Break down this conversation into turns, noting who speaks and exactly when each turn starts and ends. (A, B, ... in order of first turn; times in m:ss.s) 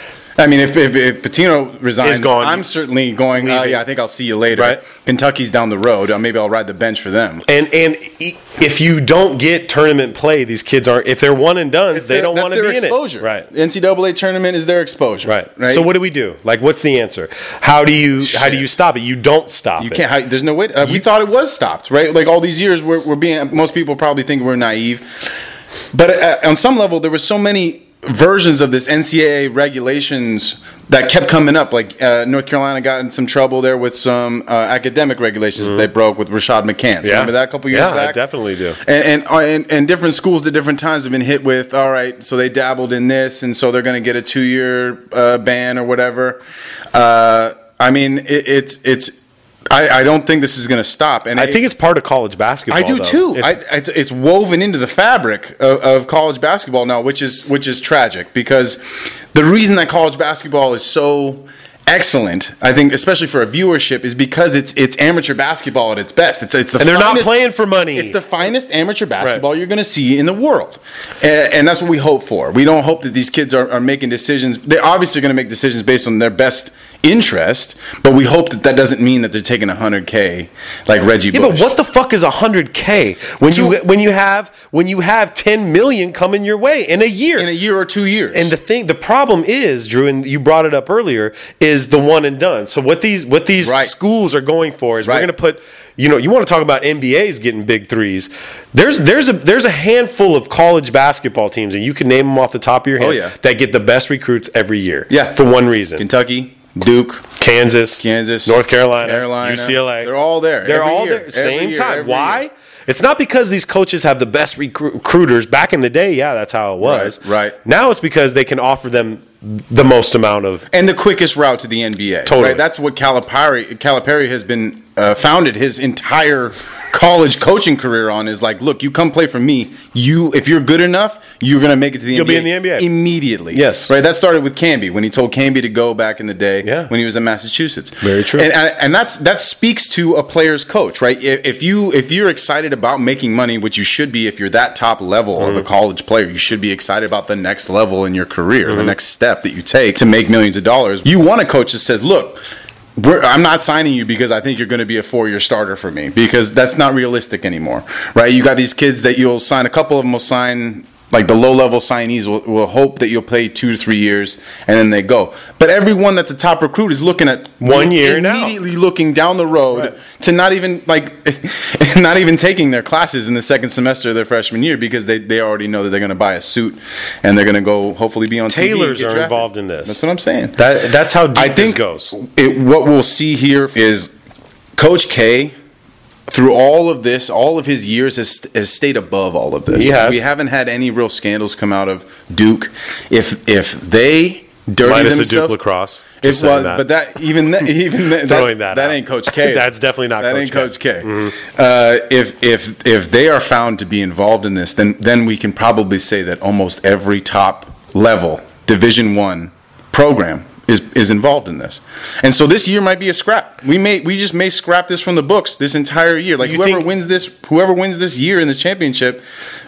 0:00.4-0:07.4 A
0:02.0-0:02.6 B
0:03.4-0:03.8 B
0:04.5-0:04.8 B
0:07.4-0:13.5 B
0:11.9-0:15.9 A
0:15.2-0:20.0 B
0:18.2-0:18.6 A
0:19.8-0:25.1 A
0:25.9-0:38.2 A
0:35.6-0:35.9 B
0:37.0-0:38.8 B
0:38.8-0:46.4 A
0:46.9-0:49.2 A
0:49.7-0:51.6 A
0:51.3-0:53.5 B
0:52.7-1:07.4 A
1:06.8-1:08.2 B
1:07.9-1:21.7 A
1:21.3-1:27.5 B
1:23.5-1:23.8 A
1:27.4-1:28.5 A
1:28.3-1:46.0 B
1:33.6-1:33.9 A
1:35.0-1:35.3 A
1:43.0-1:43.3 A
1:45.1-1:45.4 A
1:46.0-1:47.3 A
1:47.4-2:00.7 B
1:48.0-1:52.4 A
1:56.8-1:57.6 A
2:00.7-2:32.4 A
2:02.2-2:02.6 B
2:12.1-2:12.9 B
2:13.5-2:13.9 B
2:16.6-2:16.9 B
2:18.0-2:18.5 B
2:25.4-2:25.6 B
2:28.7-2:28.9 B
2:33.0-3:00.6 A
2:47.6-2:48.5 B
2:58.5-3:00.0 B
3:00.6-3:02.1 B
3:01.3-3:04.1 A
3:04.8-3:05.5 A
3:06.3-3:15.6 A
3:09.7-3:10.2 B
3:14.8-3:16.8 B
3:16.2-3:39.2 A
3:18.0-3:21.3 B
3:36.4-3:36.9 B